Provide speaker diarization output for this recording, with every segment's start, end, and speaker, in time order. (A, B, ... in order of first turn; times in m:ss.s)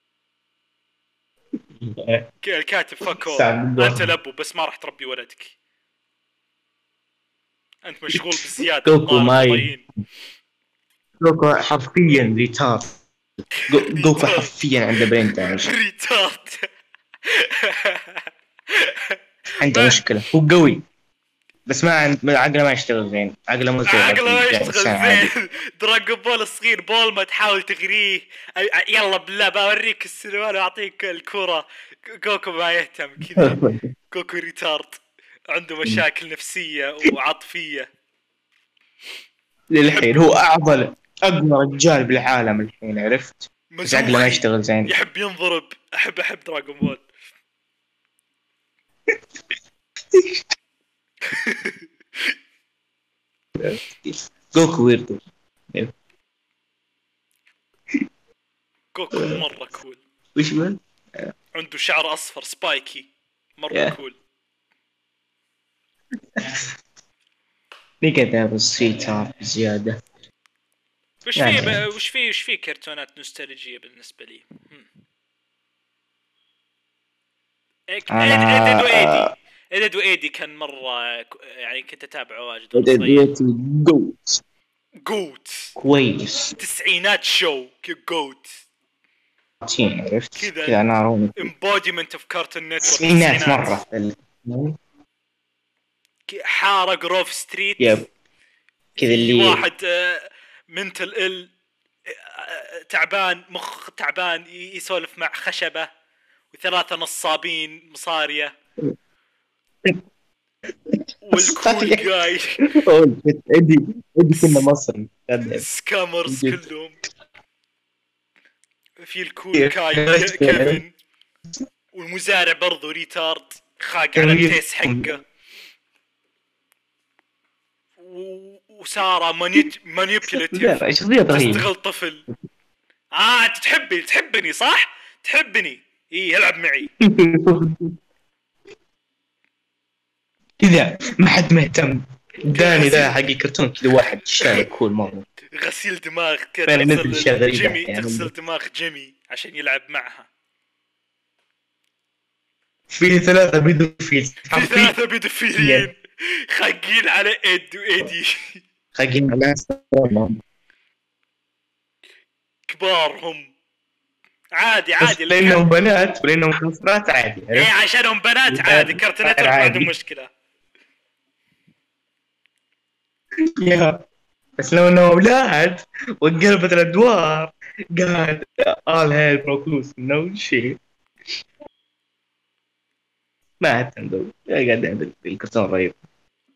0:01.8-0:02.3 A
0:02.4-0:05.5 B
0:03.1-0:04.0 A
0:07.8-0:09.8 B
0:08.1-0:09.7 A
0:11.2-0:12.9 A
0:13.6-0:14.5 B
0:13.7-0:15.7 A
0:15.2-0:16.7 B
0:17.2-0:20.0 B
0:19.6-0:20.8 A
0:21.7-0:25.3 A
0:23.8-0:37.9 B
0:33.4-0:33.9 A
0:39.7-0:44.9 A
0:39.9-0:40.2 B
0:43.7-0:47.0 B
0:50.1-0:50.4 A
0:51.2-0:52.4 B
0:53.6-0:55.9 A
0:58.9-1:00.0 B
0:59.1-0:59.4 A
1:00.4-1:01.3 A
1:01.5-1:04.2 B
1:06.4-1:06.6 A
1:08.0-1:10.0 A
1:11.2-1:14.9 B
1:11.4-1:11.8 A
1:17.9-1:23.3 B
1:18.1-1:19.3 A
1:22.7-1:24.4 A
1:25.0-1:25.7 B
1:25.8-1:26.6 A
1:26.6-1:28.6 B
1:29.6-1:31.5 A
1:30.4-1:30.8 B
1:31.4-1:33.8 B
1:32.8-1:34.8 A
1:36.3-1:38.0 B
1:37.8-1:38.1 A
1:39.0-1:39.6 A
1:39.0-1:41.5 B
1:42.0-1:45.9 B
1:46.5-1:48.5 B
1:50.9-1:52.1 A
1:51.2-1:52.6 B
1:52.6-1:55.7 A
1:54.3-1:54.7 B
1:55.5-1:57.0 B
1:56.3-1:56.6 A
1:59.0-2:00.9 B
1:59.5-2:00.8 A
2:01.9-2:05.2 B
2:04.1-2:05.2 A
2:08.0-2:12.2 B
2:10.3-2:11.6 A
2:13.1-2:16.9 B
2:17.0-2:18.0 A
2:20.6-2:25.2 A
2:22.5-2:23.1 B
2:24.4-2:24.7 B
2:25.5-2:30.3 B
2:26.7-2:28.3 A
2:32.9-2:34.9 A
2:34.5-2:38.6 B
2:35.6-2:35.9 A
2:38.9-2:40.4 A
2:42.7-2:43.5 B
2:44.5-2:45.6 B
2:45.0-2:47.7 A
2:47.5-2:50.3 B
2:48.5-2:49.9 A
2:53.4-2:54.0 A
2:54.6-3:00.8 A
3:03.6-3:06.0 A